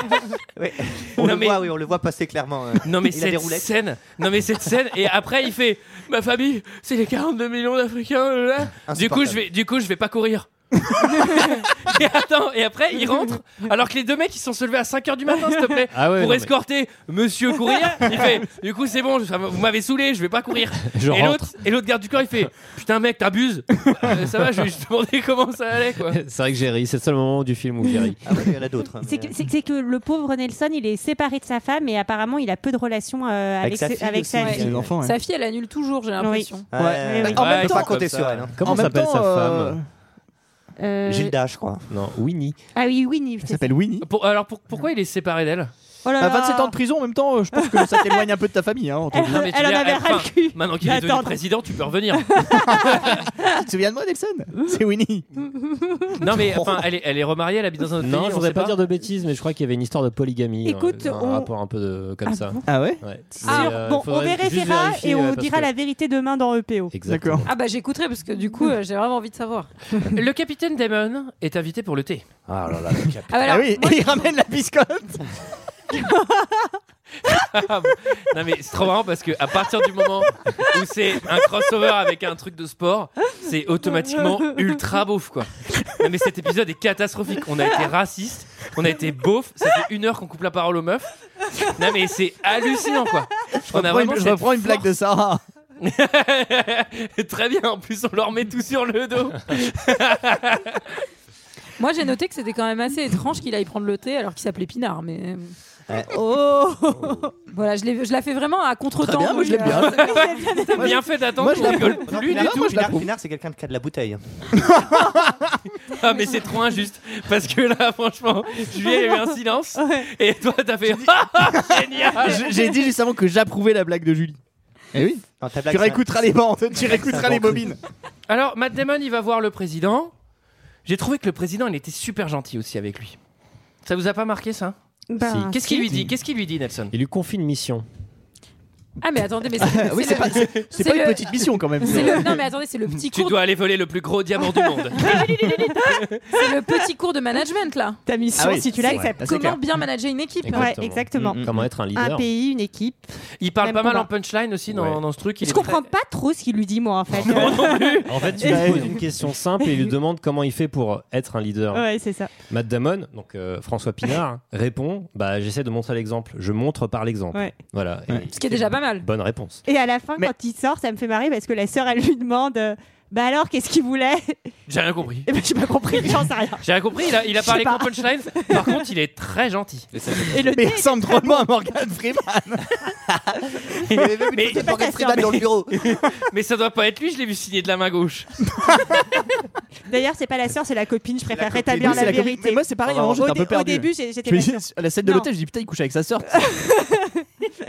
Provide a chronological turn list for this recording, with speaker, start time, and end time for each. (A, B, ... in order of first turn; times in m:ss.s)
0:00.6-0:03.7 A
0:01.2-0:01.7 B
0:02.8-0:26.2 B
0:08.9-0:09.4 A
0:15.9-0:16.5 C
0:20.9-0:21.5 C
0:26.1-0:28.2 C
0:28.2-0:29.4 A
0:29.0-0:34.6 D
0:33.6-0:35.0 A
0:34.4-0:36.7 E
0:34.5-0:35.2 F
0:36.2-0:37.9 D
0:36.7-0:38.9 A
0:36.7-0:37.9 F
0:37.3-0:38.4 B
0:38.6-0:39.8 C
0:38.6-0:39.8 F
0:40.8-0:41.4 D
0:41.1-0:41.9 A
0:41.9-0:42.6 C
0:42.8-0:43.7 D
0:43.4-0:44.1 F
0:44.0-0:45.7 B
0:46.0-0:46.8 D
0:46.2-0:49.4 F
0:47.5-0:48.3 D
0:49.1-0:51.4 D
0:49.2-0:53.2 B
0:52.2-0:53.3 D
0:52.5-0:55.3 F
0:55.4-0:56.2 D
0:56.2-0:58.8 B
0:58.0-1:05.7 C
1:00.6-1:01.5 D
1:02.3-1:02.9 D
1:02.7-1:03.0 F
1:03.4-1:06.9 D
1:03.5-1:03.7 E
1:06.9-1:07.5 C
1:07.0-1:07.4 F
1:07.4-1:09.7 E
1:10.1-1:12.2 B
1:12.5-1:13.9 A
1:13.3-1:14.3 E
1:13.5-1:15.3 F
1:15.9-1:16.8 D
1:17.3-1:34.8 B
1:33.6-1:35.4 F
1:35.8-1:40.9 B
1:41.8-1:45.5 E
1:45.9-1:47.3 A
1:46.1-1:47.3 D
1:47.5-1:50.9 E
1:49.0-1:50.2 F
1:49.5-1:52.8 B
1:49.9-1:51.0 D
1:50.8-1:53.1 F
1:51.9-1:54.6 A
1:54.6-1:55.6 F
1:55.9-2:02.6 B
1:59.8-2:00.1 D
2:01.0-2:04.4 F
2:04.9-2:07.8 F
2:05.4-2:07.7 A
2:08.3-2:10.1 B
2:10.9-2:13.2 B
2:13.8-2:14.8 B
2:15.1-2:15.9 D
2:15.2-2:16.1 C
2:15.5-2:16.9 B
2:16.9-2:17.8 C
2:19.0-2:23.4 E
2:19.6-2:22.4 F
2:22.9-2:26.2 B
2:25.0-2:25.5 D
2:25.1-2:25.8 E
2:26.3-2:28.0 E
2:28.1-2:29.3 D
2:28.4-2:29.6 F
2:29.2-2:30.7 E
2:30.4-2:32.3 C
2:30.5-2:34.1 D
2:31.2-2:31.7 A
2:33.4-2:35.9 B
2:34.7-2:35.0 C
2:35.4-2:39.0 D
2:37.2-2:41.9 C
2:37.2-2:38.3 B
2:38.4-2:39.1 F
2:39.6-2:39.9 D
2:41.7-2:42.3 D
2:42.5-2:49.6 C
2:48.3-2:49.1 E
2:49.6-2:54.5 D
2:54.7-2:55.3 B
2:55.3-2:56.7 D
2:56.6-2:59.9 B
2:57.4-2:58.8 D
2:59.9-3:00.3 A
3:00.3-3:01.5 D
3:00.3-3:02.8 F
3:03.8-3:08.4 B
3:03.9-3:05.8 A
3:04.4-3:05.5 D
3:08.6-3:09.0 F
3:09.9-3:15.3 D
3:11.3-3:12.3 A
3:11.8-3:16.5 F
3:12.9-3:13.2 A
3:16.3-3:17.2 D